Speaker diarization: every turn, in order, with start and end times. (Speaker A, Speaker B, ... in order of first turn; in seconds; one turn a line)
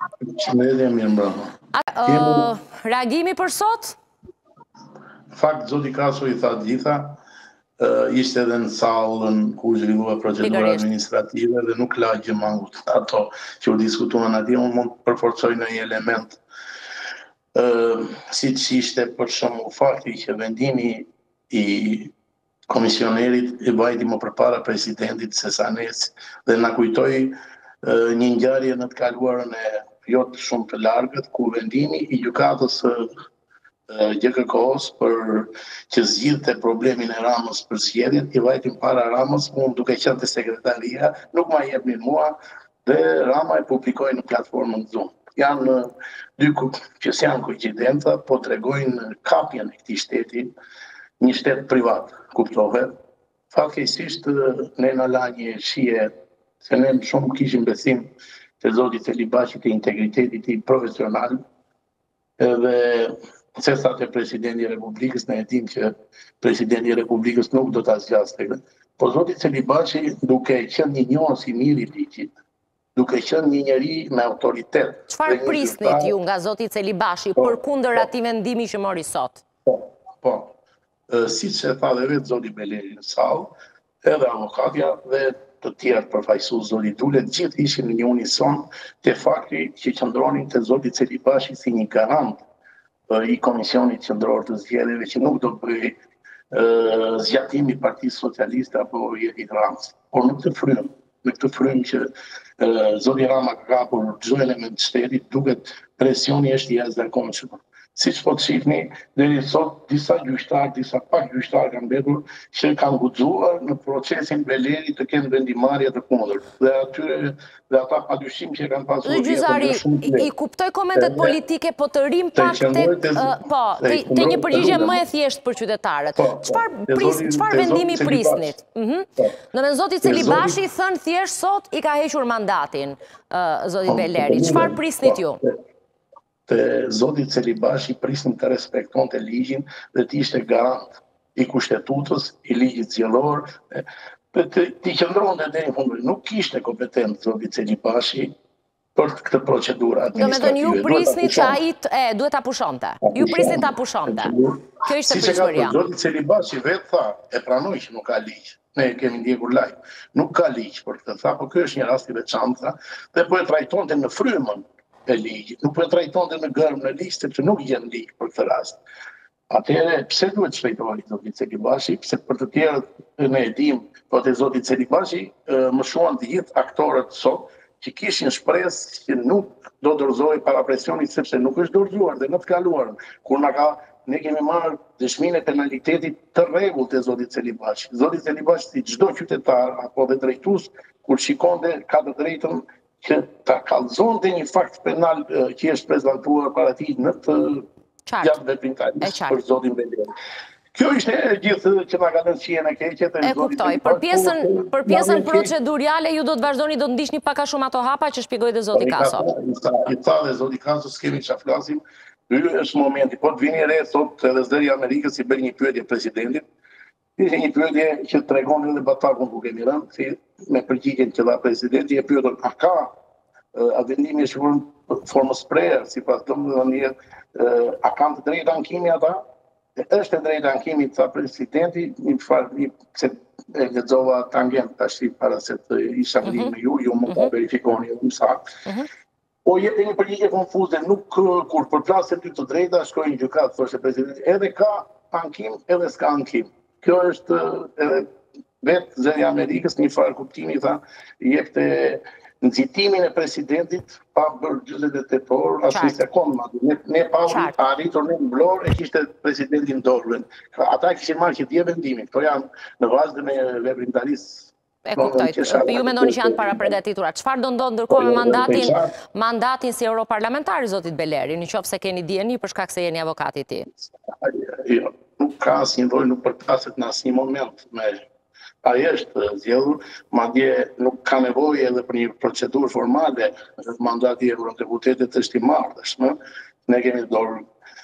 Speaker A: 0.2-1.5
Speaker B: 1.7-4.0
Speaker A: 2.0-2.5
Speaker A: 5.3-7.2
Speaker A: 7.8-16.4
Speaker B: 10.4-10.8
Speaker A: 17.5-22.1
Speaker A: 22.7-33.1
Speaker A: 33.9-50.5
Speaker A: 51.2-52.9
Speaker A: 53.5-61.4
Speaker A: 62.4-72.3
Speaker A: 72.9-76.2
Speaker B: 75.1-79.4
Speaker A: 77.4-78.1
Speaker A: 79.7-80.5
Speaker A: 81.1-92.4
Speaker A: 93.1-96.0
Speaker A: 96.5-102.1
Speaker A: 102.6-120.3
Speaker B: 119.0-135.4
Speaker A: 120.9-121.4
Speaker A: 122.3-125.0
Speaker A: 126.2-128.6
Speaker A: 130.0-130.6
Speaker A: 133.8-135.6
Speaker A: 136.5-148.3
Speaker A: 148.9-151.6
Speaker B: 150.1-155.8
Speaker A: 153.0-168.8
Speaker A: 169.5-197.7
Speaker B: 198.1-198.4
Speaker A: 198.2-200.1
Speaker B: 199.0-199.4
Speaker A: 200.7-205.5
Speaker B: 203.2-209.2
Speaker A: 208.7-216.4
Speaker A: 217.2-222.9
Speaker A: 223.5-229.2
Speaker A: 229.8-238.5
Speaker B: 236.2-236.5
Speaker A: 239.4-248.1
Speaker A: 248.6-266.8
Speaker B: 255.7-256.0
Speaker B: 257.3-257.5
Speaker B: 264.8-273.7
Speaker A: 267.9-268.9
Speaker A: 274.1-278.0
Speaker A: 278.6-287.4